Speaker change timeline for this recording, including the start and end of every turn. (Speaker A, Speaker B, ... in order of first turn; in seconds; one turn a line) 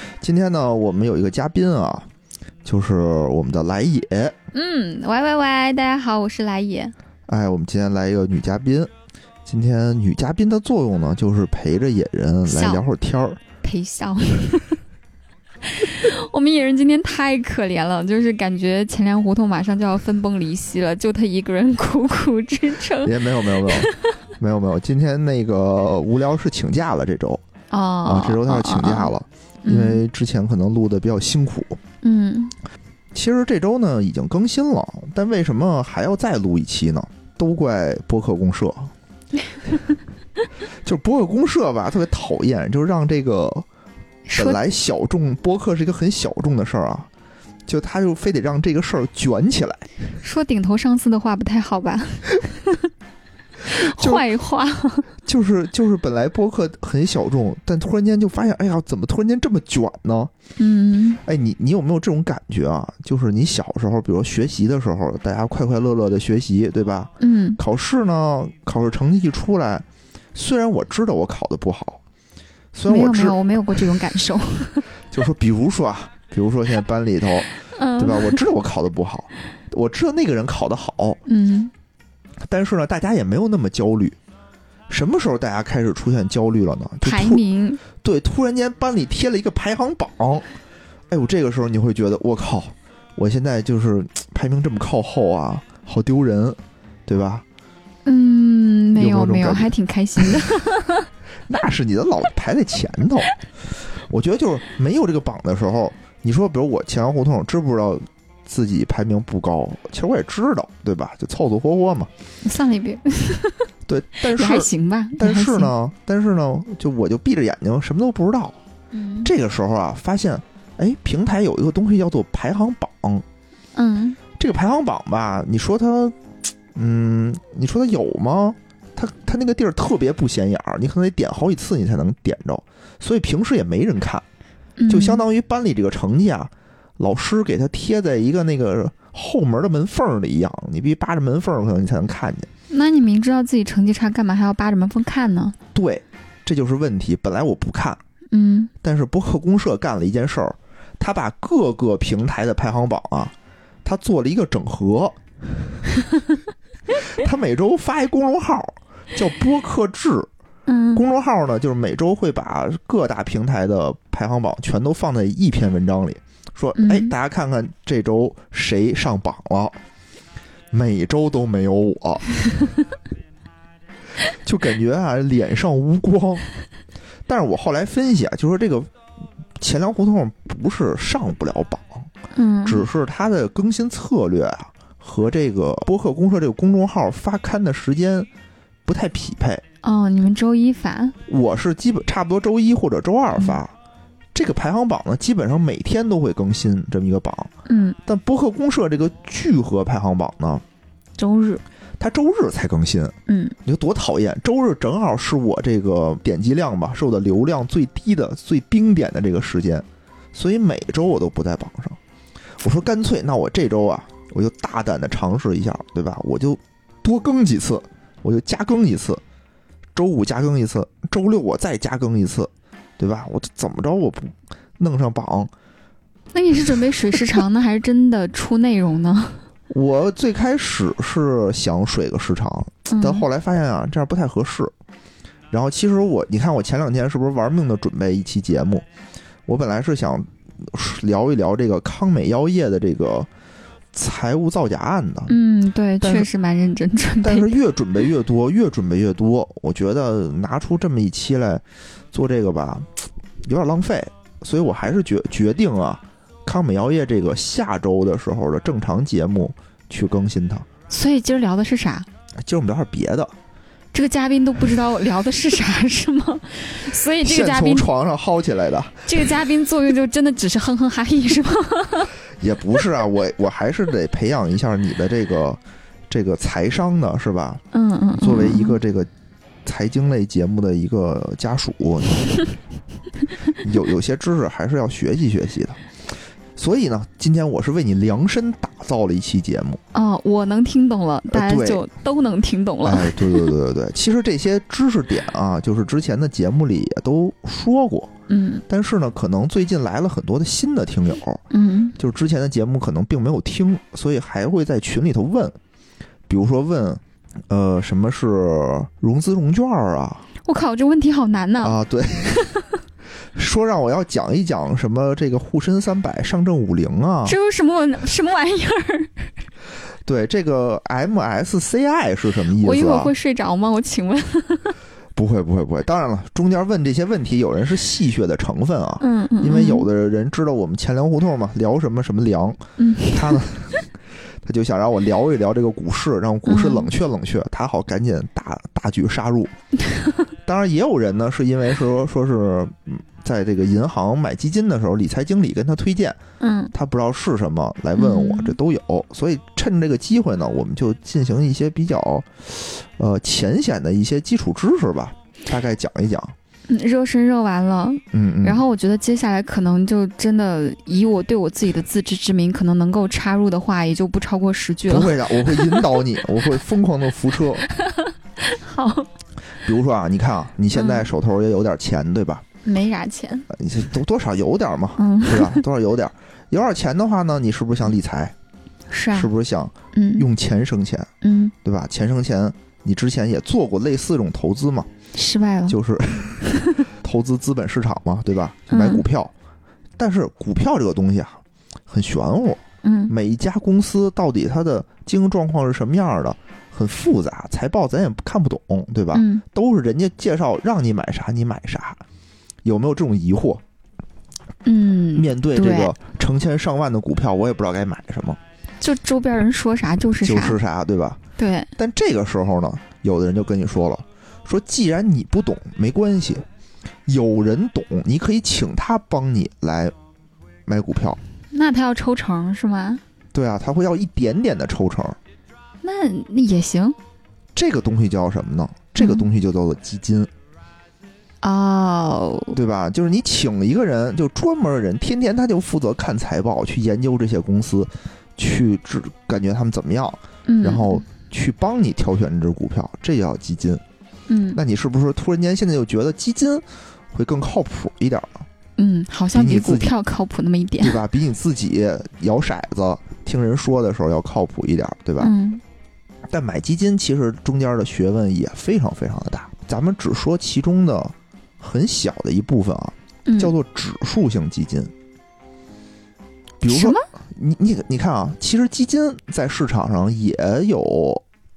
Speaker A: 0.2-2.1
Speaker A: 2.6-4.3
Speaker B: 4.5-6.9
Speaker A: 7.3-8.9
Speaker A: 9.4-13.4
Speaker B: 12.5-12.8
Speaker B: 13.6-14.8
Speaker B: 15.6-24.1
Speaker A: 23.0-27.4
Speaker B: 27.7-29.1
Speaker A: 28.0-31.8
Speaker B: 29.6-30.0
Speaker B: 32.0-32.5
Speaker A: 33.1-38.9
Speaker A: 40.8-43.6
Speaker B: 44.3-44.6
Speaker A: 44.4-47.1
Speaker A: 47.7-49.9
Speaker B: 50.2-52.9
Speaker B: 53.6-55.1
Speaker A: 53.7-54.2
Speaker A: 55.2-60.3
Speaker B: 60.6-61.2
Speaker A: 61.2-72.0
Speaker B: 67.2-67.6
Speaker A: 72.7-73.4
Speaker B: 72.9-74.8
Speaker A: 75.1-81.2
Speaker B: 77.7-78.4
Speaker B: 81.2-81.7
Speaker A: 82.5-84.2
Speaker A: 84.9-87.4
Speaker B: 87.0-87.8
Speaker A: 88.0-90.5
Speaker A: 91.1-97.4
Speaker B: 98.0-101.1
Speaker A: 99.0-100.3
Speaker A: 101.5-103.3
Speaker A: 104.1-112.1
Speaker B: 112.4-113.7
Speaker A: 113.9-118.6
Speaker B: 114.3-115.7
Speaker B: 118.9-119.3
Speaker A: 119.2-123.2
Speaker B: 123.7-124.2
Speaker A: 124.4-126.2
Speaker A: 126.7-134.2
Speaker B: 134.8-135.2
Speaker A: 134.9-142.5
Speaker B: 142.7-145.6
Speaker A: 145.7-148.0
Speaker B: 148.3-148.7
Speaker A: 148.8-155.2
Speaker A: 156.9-160.3
Speaker B: 160.7-161.0
Speaker A: 160.9-169.8
Speaker B: 166.8-167.1
Speaker A: 170.7-172.4
Speaker A: 174.3-176.5
Speaker A: 177.3-178.9
Speaker A: 179.6-182.1
Speaker B: 182.3-182.8
Speaker A: 182.7-188.3
Speaker A: 188.8-189.6
Speaker B: 189.8-191.2
Speaker A: 191.3-193.7
Speaker A: 194.3-197.5
Speaker B: 197.7-198.0
Speaker A: 198.0-200.6
Speaker B: 201.2-201.6
Speaker A: 202.0-212.0
Speaker B: 203.3-203.6
Speaker A: 212.6-219.2
Speaker A: 219.9-225.5
Speaker B: 226.3-229.4
Speaker A: 229.7-234.7
Speaker B: 232.9-233.3
Speaker A: 235.5-238.8
Speaker A: 239.5-243.3
Speaker A: 243.9-245.3
Speaker B: 245.3-247.6
Speaker A: 246.0-246.3
Speaker A: 247.2-252.9
Speaker A: 253.4-260.7
Speaker B: 260.9-262.1
Speaker A: 262.4-263.3
Speaker B: 263.9-267.9
Speaker A: 267.2-269.3
Speaker B: 269.1-272.1
Speaker A: 272.4-277.6
Speaker B: 277.7-278.8
Speaker A: 278.1-279.1
Speaker A: 279.6-282.3
Speaker A: 283.6-285.8
Speaker A: 286.6-289.8
Speaker B: 289.9-293.5
Speaker A: 291.3-291.8
Speaker A: 292.8-298.1
Speaker B: 298.3-298.6
Speaker A: 298.7-301.4
Speaker B: 301.5-301.9
Speaker A: 302.0-305.6
Speaker A: 306.3-310.3
Speaker B: 310.4-311.8
Speaker A: 311.6-312.5
Speaker A: 313.3-317.4
Speaker B: 317.2-319.3
Speaker A: 320.0-323.1
Speaker B: 322.6-324.8
Speaker A: 325.1-333.8
Speaker B: 329.0-329.9
Speaker B: 332.8-333.4
Speaker A: 334.4-339.5
Speaker B: 336.4-336.9
Speaker A: 340.4-346.2
Speaker B: 346.4-346.7
Speaker A: 346.7-356.3
Speaker B: 347.9-348.6
Speaker B: 356.7-366.0
Speaker A: 358.1-358.6
Speaker A: 364.9-367.7
Speaker B: 367.6-369.1
Speaker A: 369.6-372.4
Speaker B: 370.7-371.1
Speaker B: 372.6-373.5
Speaker A: 373.5-378.3
Speaker B: 375.0-375.6
Speaker B: 378.9-379.3
Speaker A: 379.1-381.1
Speaker B: 379.9-380.3
Speaker B: 381.2-381.5
Speaker A: 381.6-384.9
Speaker B: 385.1-385.8
Speaker A: 385.7-389.3
Speaker B: 388.7-389.0
Speaker A: 390.0-402.0
Speaker B: 392.8-393.1
Speaker B: 399.1-399.4
Speaker A: 402.6-403.6
Speaker B: 404.6-405.9
Speaker A: 405.1-408.4
Speaker B: 408.8-410.6
Speaker A: 410.2-411.2
Speaker B: 411.4-411.7
Speaker A: 411.8-416.4
Speaker A: 417.1-419.9
Speaker A: 420.7-421.2
Speaker B: 421.5-423.0
Speaker A: 423.3-425.2
Speaker B: 425.8-427.0
Speaker A: 427.5-430.3
Speaker B: 429.0-429.2
Speaker B: 431.4-432.5
Speaker A: 432.5-443.8
Speaker B: 440.4-441.0
Speaker B: 444.3-444.6
Speaker A: 444.5-448.4
Speaker B: 448.8-451.0
Speaker A: 449.3-449.9
Speaker A: 450.8-455.3
Speaker B: 455.2-455.6
Speaker A: 456.3-464.9
Speaker B: 463.2-463.5
Speaker A: 466.6-471.2
Speaker B: 466.7-467.0